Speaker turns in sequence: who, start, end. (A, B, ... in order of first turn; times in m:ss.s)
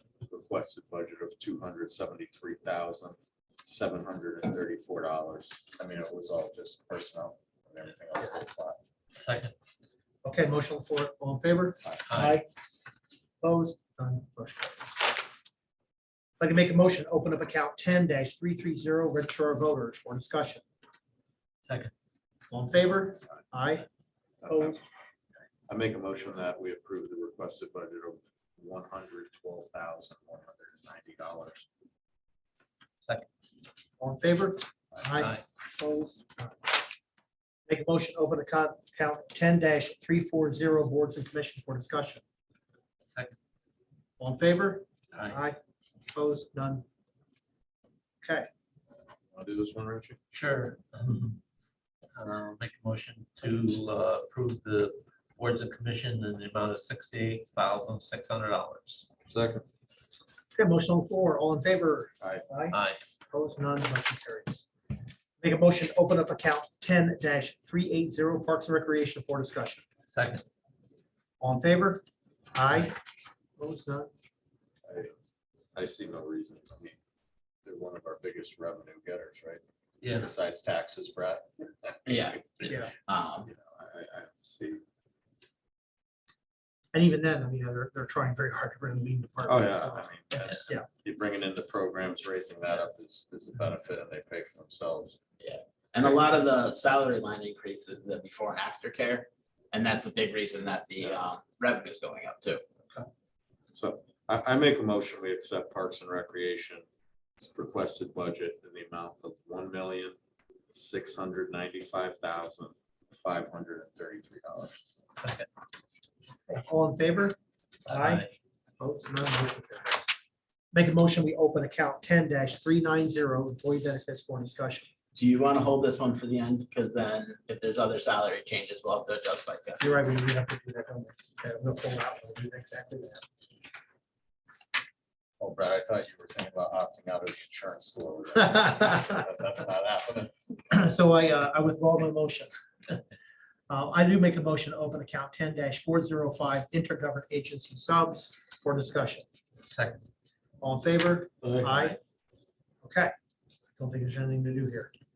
0:00.2-0:08.8 A
0:09.1-0:09.5 B
0:10.2-0:12.4 C
0:12.1-0:12.4 B
0:13.4-0:15.2 C
0:16.4-0:20.6 C
0:21.6-0:21.9 B
0:22.5-0:23.8 C
0:24.4-0:24.8 A
0:24.4-0:24.8 C
0:25.7-0:31.6 A
0:34.0-0:36.6 C
0:35.2-0:35.4 B
0:37.7-0:42.2 C
0:44.2-0:45.6 C
0:45.1-0:45.4 B
0:46.1-0:46.8 C
0:48.2-0:48.5 C
0:49.3-0:50.2 A
0:50.3-0:51.4 B
0:52.2-0:59.1 B
0:59.3-0:59.6 A
1:00.5-1:02.8 C
1:02.7-1:03.0 B
1:03.3-1:04.6 C
1:05.4-1:09.8 C
1:10.1-1:10.4 B
1:11.4-1:13.0 C
1:13.6-1:14.1 C
1:14.8-1:15.1 A
1:15.7-1:17.0 A
1:17.6-1:22.0 A
1:20.0-1:20.3 B
1:22.0-1:23.5 D
1:22.7-1:22.9 C
1:23.5-1:24.8 A
1:26.9-1:30.9 C
1:29.5-1:35.2 A
1:35.4-1:42.6 D
1:43.7-1:46.8 A
1:47.4-1:50.2 A
1:50.7-1:54.9 A
1:56.5-1:57.4 C
1:57.9-1:58.2 C
1:57.9-1:58.3 B
1:58.8-2:00.1 C
2:00.7-2:04.9 C
2:05.1-2:09.8 D
2:09.8-2:13.2 C
2:15.4-2:20.3 A
2:18.5-2:19.1 C
2:20.7-2:22.5 C
2:23.7-2:29.2 C
2:29.7-2:30.0 B
2:30.6-2:32.0 C
2:31.4-2:31.9 A
2:32.8-2:33.1 C
2:33.8-2:34.9 C